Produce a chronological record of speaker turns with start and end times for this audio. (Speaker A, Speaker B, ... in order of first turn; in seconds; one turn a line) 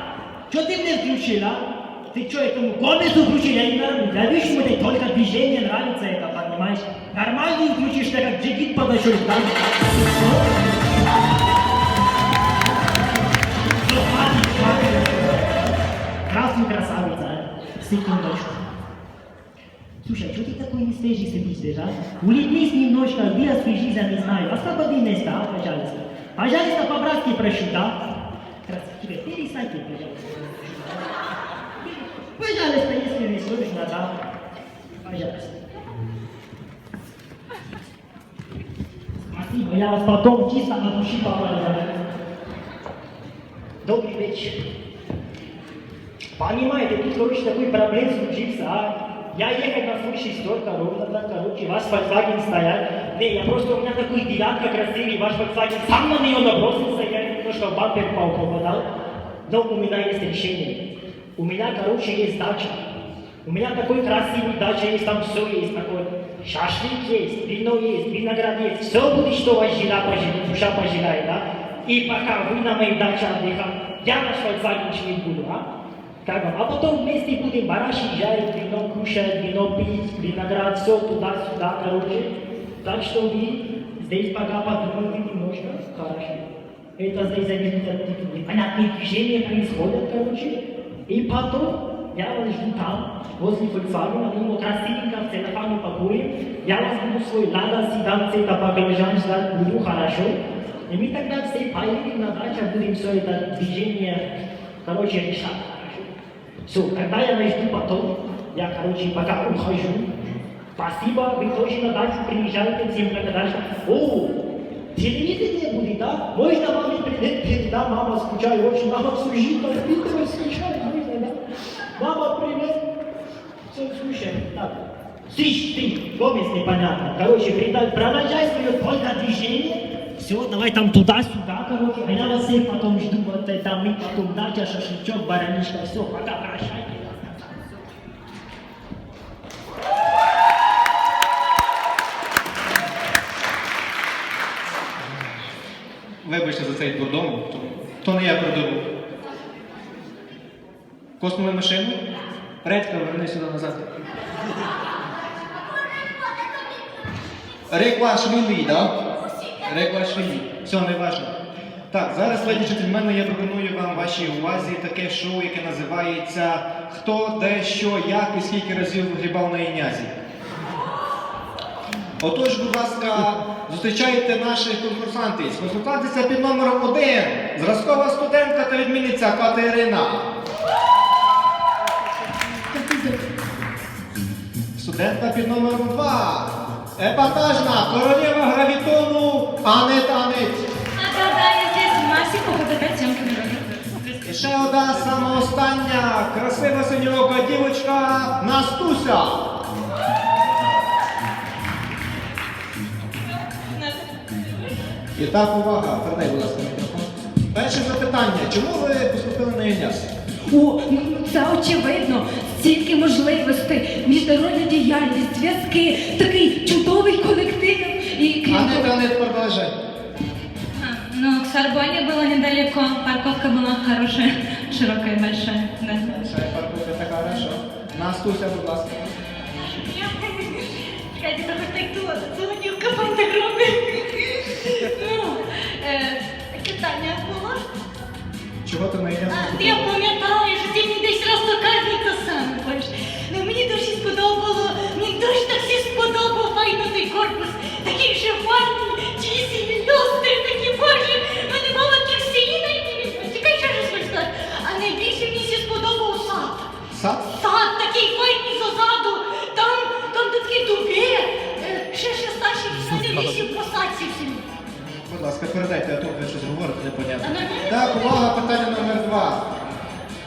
Speaker A: 0.5-10.5
Speaker A: 13.8-15.6
Speaker A: 16.3-18.6
Speaker A: 20.0-28.0
Speaker A: 28.7-31.1
Speaker A: 32.4-34.1
Speaker A: 35.0-35.6
Speaker A: 39.3-41.9
Speaker A: 43.8-44.6
Speaker A: 46.4-58.9
Speaker A: 59.5-60.8
Speaker A: 61.4-62.9
Speaker A: 63.5-75.7
Speaker A: 76.2-86.5
Speaker A: 87.0-100.4
Speaker A: 100.9-104.3
Speaker A: 104.8-106.1
Speaker A: 106.7-110.1
Speaker A: 110.8-114.3
Speaker A: 115.0-121.3
Speaker A: 122.0-122.8
Speaker A: 123.7-137.6
Speaker B: 146.2-148.9
Speaker B: 151.2-152.0
Speaker B: 152.6-153.9
Speaker B: 157.7-158.9
Speaker B: 159.6-161.4
Speaker B: 161.9-170.1
Speaker B: 172.2-180.3
Speaker C: 182.7-183.2
Speaker B: 184.8-190.6
Speaker D: 191.0-194.1
Speaker B: 194.2-199.4
Speaker B: 205.2-210.1
Speaker C: 210.5-219.1
Speaker B: 218.5-219.7
Speaker D: 220.8-226.2
Speaker B: 226.0-229.1
Speaker E: 229.6-237.6
Speaker B: 238.6-239.9
Speaker E: 239.3-256.6
Speaker B: 256.9-257.2
Speaker E: 257.3-264.4
Speaker B: 264.7-269.5
Speaker E: 267.2-268.3